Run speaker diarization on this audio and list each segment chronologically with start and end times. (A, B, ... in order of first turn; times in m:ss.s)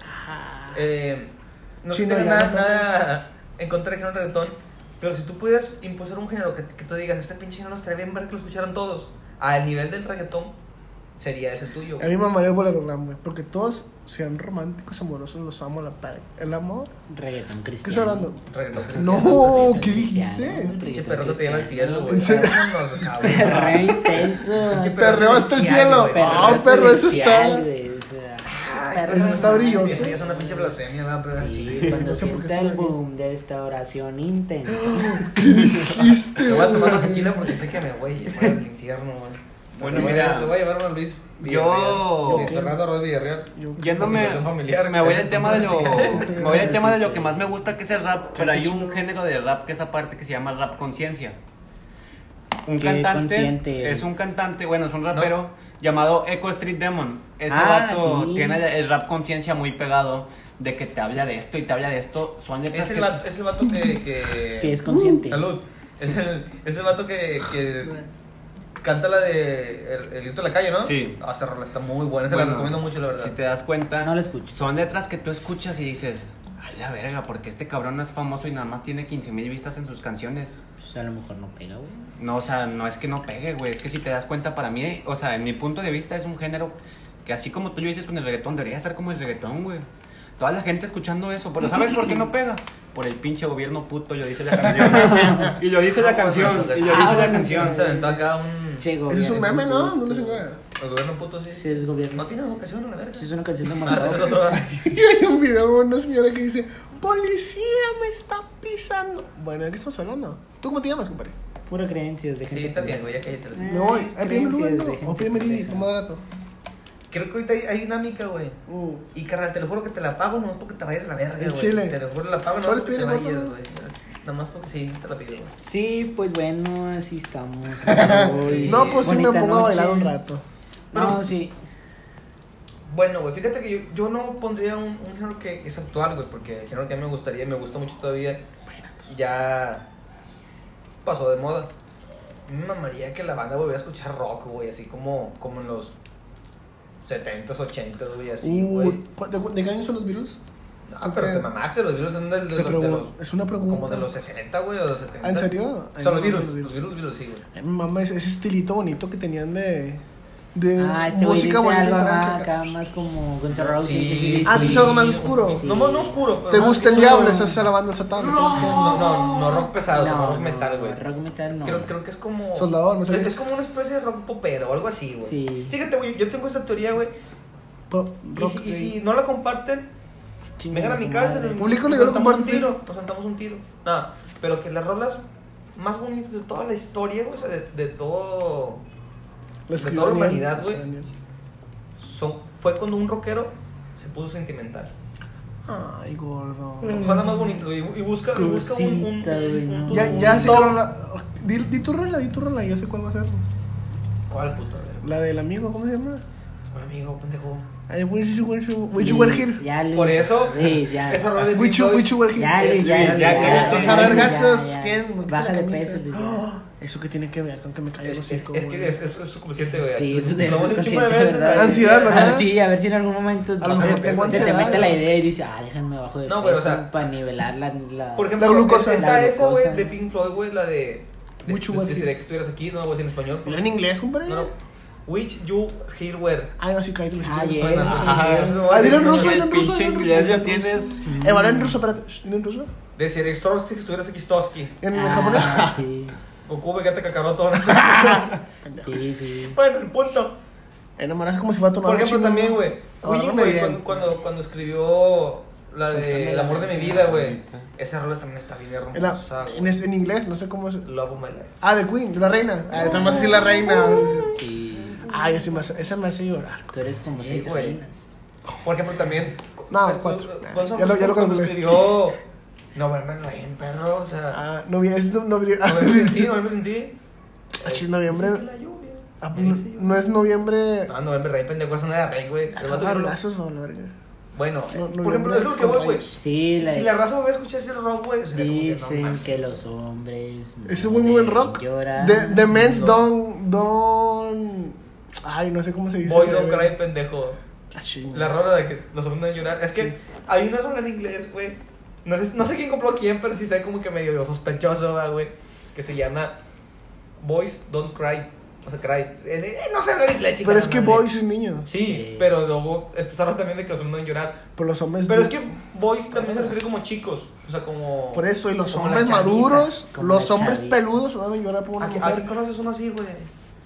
0:00.2-0:00.7 A
0:00.7-0:10.5 B
0:01.9-0:03.1 A
0:11.2-0:12.1 B
0:12.0-0:16.9 A
0:17.1-0:18.3 C
0:17.8-0:18.4 A
0:18.5-0:27.4 B
0:18.9-0:20.7 A
0:19.1-0:22.5 C
0:22.1-0:24.0 A
0:23.2-0:25.5 C
0:25.0-0:27.6 A
0:26.1-0:30.8 C
0:28.4-0:32.1 B
0:29.1-0:30.2 A
0:31.3-0:35.3 C
0:31.8-0:33.0 A
0:34.7-0:37.5 A
0:35.6-0:35.9 D
0:36.4-0:46.4 B
0:39.8-0:40.6 D
0:41.4-0:42.5 D
0:42.3-0:42.8 A
0:43.5-0:44.3 A
0:43.8-0:51.4 D
0:46.0-0:46.8 A
0:46.2-0:47.4 C
0:48.4-0:49.0 A
0:52.7-1:03.2 D
0:52.8-0:54.2 C
0:57.5-0:58.6 C
1:02.7-1:08.0 B
1:03.7-1:03.9 A
1:04.6-1:05.5 C
1:04.8-1:05.2 A
1:08.8-1:13.4 B
1:10.8-1:11.2 D
1:12.3-1:20.5 D
1:14.0-1:14.6 C
1:20.8-1:22.1 C
1:22.2-1:29.9 D
1:30.4-1:37.8 D
1:34.8-1:35.1 B
1:35.0-1:35.5 C
1:35.9-1:38.9 B
1:36.8-1:38.2 C
1:38.8-1:40.4 C
1:39.1-1:40.6 A
1:40.8-1:44.7 B
1:41.5-1:42.3 C
1:43.2-1:44.6 C
1:44.5-1:51.4 A
1:51.7-1:55.9 C
1:52.5-1:53.9 B
1:53.7-1:56.2 A
1:57.1-1:58.6 B
1:58.7-1:59.0 A
1:59.1-2:05.5 B
2:01.4-2:02.0 A
2:02.6-2:03.5 A
2:05.6-2:10.2 C
2:07.9-2:10.4 A
2:07.9-2:09.1 B
2:10.9-2:11.6 C
2:10.9-2:11.3 B
2:12.9-2:18.4 B
2:18.7-2:19.1 A
2:19.1-2:19.8 B
2:21.0-2:21.7 B
2:22.5-2:26.0 B
2:27.0-2:29.0 B
2:28.4-2:30.4 A
2:30.9-2:33.1 B
2:31.0-2:31.5 A
2:32.6-2:34.1 A
2:33.7-2:37.4 B
2:35.2-2:36.8 A
2:37.5-2:40.0 A
2:40.5-2:42.7 A
2:40.8-2:47.6 C
2:43.5-2:47.5 B
2:44.4-2:45.6 A
2:46.5-2:49.4 A
2:48.2-2:51.0 B
2:48.5-2:51.9 C
2:51.6-2:57.1 B
2:52.6-2:53.4 A
2:55.2-2:55.8 C
2:57.9-2:59.0 A
2:58.4-2:59.9 B
3:00.6-3:01.6 C
3:00.7-3:05.2 B
3:01.6-3:02.7 A
3:05.8-3:08.8 B
3:09.7-3:11.1 A
3:09.8-3:10.8 B
3:12.0-3:14.9 B
3:15.7-3:17.2 A
3:16.9-3:20.8 B
3:18.3-3:20.7 C
3:19.9-3:23.4 A
3:24.3-3:25.1 B
3:25.0-3:26.2 A
3:26.7-3:27.7 B
3:27.9-3:29.6 A
3:29.0-3:31.3 C
3:29.9-3:34.3 B
3:31.5-3:39.0 A
3:32.4-3:36.4 C
3:32.8-3:34.3 D
3:38.0-3:42.4 B
3:40.0-3:49.9 C
3:41.5-3:42.5 A
3:43.6-3:44.9 A
3:43.7-3:45.0 B
3:46.3-3:46.9 B
3:48.2-3:53.7 B
3:48.4-3:49.2 A
3:51.5-3:52.1 A
3:53.4-3:54.5 A
3:54.2-3:54.5 B
3:55.1-3:56.5 B
3:56.6-4:02.7 A
3:57.2-3:58.8 C
3:57.6-3:59.5 B
3:57.9-4:01.2 D
4:01.2-4:01.8 C
4:03.0-4:04.8 B
4:04.8-4:05.8 A
4:04.9-4:06.2 C
4:06.5-4:08.3 B
4:07.8-4:09.0 A
4:08.8-4:09.6 C
4:09.5-4:10.4 B
4:11.0-4:13.9 A
4:11.8-4:19.8 B
4:16.1-4:16.9 A
4:16.6-4:17.7 D
4:18.9-4:20.9 A
4:20.8-4:21.5 B
4:21.6-4:24.3 A
4:22.7-4:24.3 B
4:24.3-4:25.0 C
4:24.8-4:25.5 B
4:25.1-4:26.7 A
4:26.7-4:28.1 C
4:27.0-4:27.8 B
4:28.6-4:32.2 B
4:29.7-4:31.8 A
4:32.8-4:34.4 B
4:34.3-4:36.3 A
4:35.6-4:37.0 B
4:37.6-4:38.4 A
4:37.6-4:40.2 B
4:39.2-4:40.9 A
4:40.9-4:43.2 B
4:42.6-4:43.9 A
4:44.4-4:49.6 B
4:44.7-4:46.2 A
4:46.2-4:46.9 C
4:48.3-4:52.6 C
4:50.7-4:56.7 A
4:52.5-4:53.1 B
4:56.0-4:57.4 B
4:57.7-4:58.4 A
4:58.1-5:06.4 B
5:07.2-5:11.1 B
5:10.4-5:11.7 A
5:11.7-5:14.4 B
5:11.8-5:12.3 C
5:14.6-5:15.4 A
5:15.1-5:19.7 B
5:16.1-5:16.7 A
5:18.1-5:22.3 A
5:19.9-5:20.9 C
5:21.8-5:23.3 B